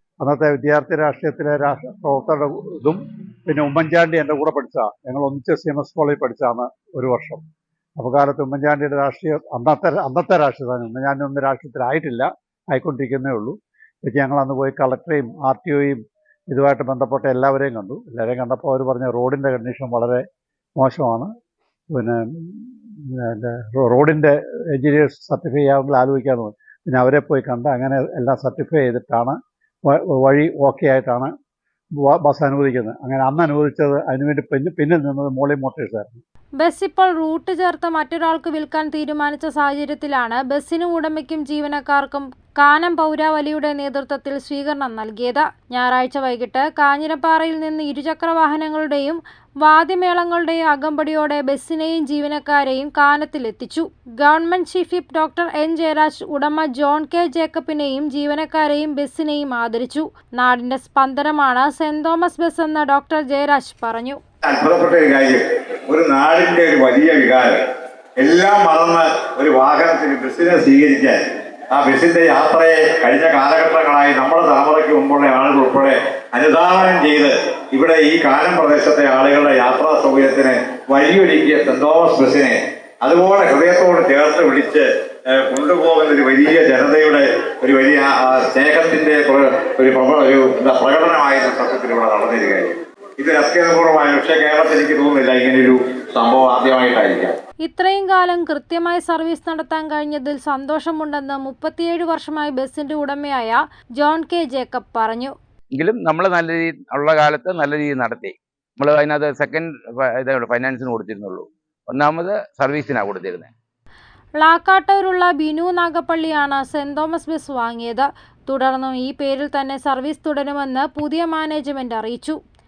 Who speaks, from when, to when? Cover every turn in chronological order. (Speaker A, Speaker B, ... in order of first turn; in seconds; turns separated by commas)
Speaker A: 0.2-7.4, Speaker A: 8.0-16.0, Speaker A: 16.5-20.2, Speaker A: 20.8-21.3, Speaker A: 21.9-29.3, Speaker A: 29.9-31.3, Speaker A: 32.0-36.2, Speaker B: 36.6-64.2, Speaker C: 64.4-67.6, Speaker C: 68.2-71.2, Speaker C: 71.7-97.3, Speaker B: 97.6-105.3, Speaker D: 105.7-113.5, Speaker B: 114.4-122.4